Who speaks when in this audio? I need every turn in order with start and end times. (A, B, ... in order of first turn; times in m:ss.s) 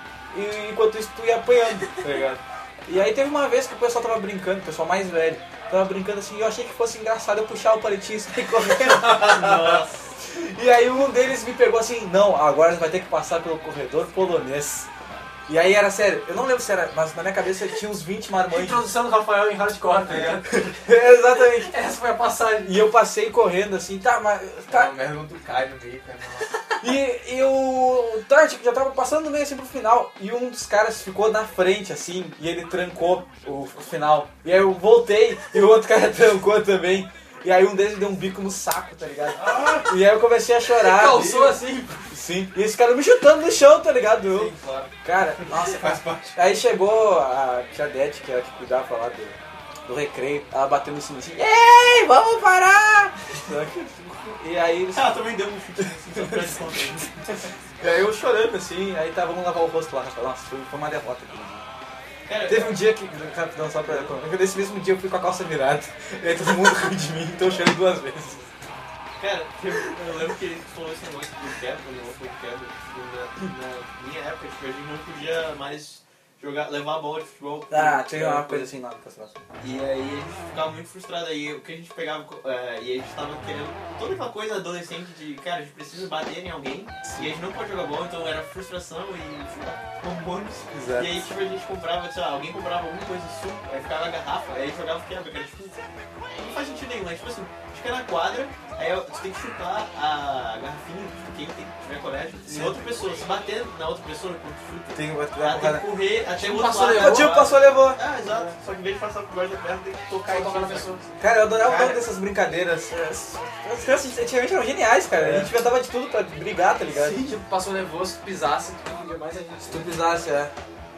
0:00.3-0:14.9 A
0:09.0-0:10.0 B
0:15.5-0:18.9 A
0:18.5-0:20.5 C
0:20.1-0:20.7 D
0:20.6-0:21.7 A
0:21.6-0:22.8 C
0:22.6-0:24.9 A
0:24.7-0:26.6 D
0:26.8-0:41.6 A
0:39.4-0:39.9 D
0:40.8-0:42.0 C
0:41.1-0:41.5 D
0:42.1-0:44.5 A
0:44.3-0:44.9 D
0:45.0-0:55.2 A
0:45.4-0:46.4 D
0:54.9-0:57.4 B
0:56.1-0:56.6 A
0:57.8-1:01.6 A
1:02.3-1:02.8 B
1:02.4-1:08.4 A
1:03.8-1:04.2 B
1:09.2-1:18.7 B
1:17.7-1:19.4 A
1:19.6-1:51.0 B
1:30.7-1:31.3 A
1:44.9-1:45.9 A
1:46.3-1:47.4 C
1:46.9-1:48.0 A
1:50.3-1:51.0 C
1:51.2-1:57.3 A
1:51.6-1:52.0 D
1:55.2-1:55.5 D
1:56.9-2:00.0 C
1:59.6-2:00.5 A